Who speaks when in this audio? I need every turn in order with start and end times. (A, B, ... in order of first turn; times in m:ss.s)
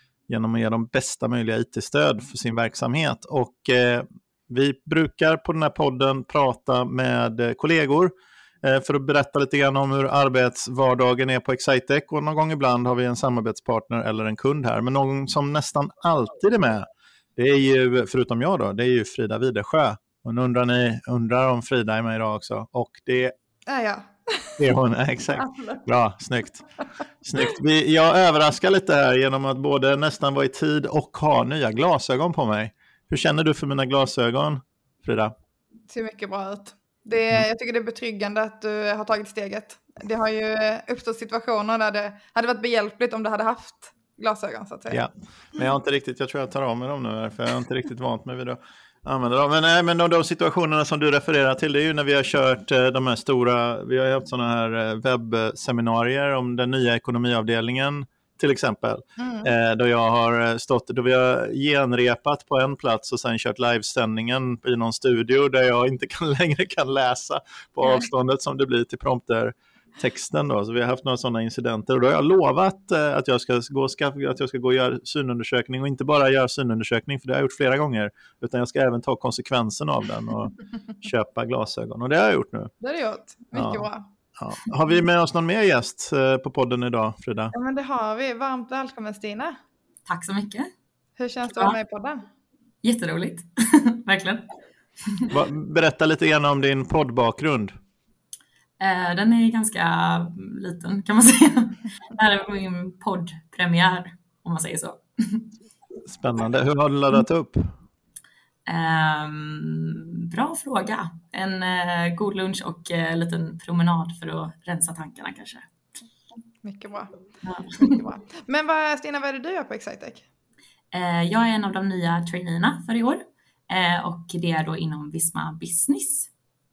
0:00.3-0:08.1 A
0:08.6-0:23.3 A
0:23.7-0:24.6 B
0:24.6-0:26.6 A
0:25.4-0:25.8 B
0:27.2-0:35.3 A
0:35.9-0:45.0 B
0:44.9-1:22.7 A
0:59.2-0:59.5 B
1:22.8-1:24.1 B
1:23.5-1:27.5 A
1:27.5-1:29.6 B
1:30.1-1:30.7 C
1:31.2-1:32.3 B
1:32.8-1:34.5 C
1:35.3-1:37.7 A
1:38.8-1:45.5 C
1:46.1-1:47.7 A
1:48.7-1:55.7 C
1:56.6-1:57.2 B
1:57.4-1:58.0 C
1:57.8-2:00.2 B
2:00.9-2:06.3 C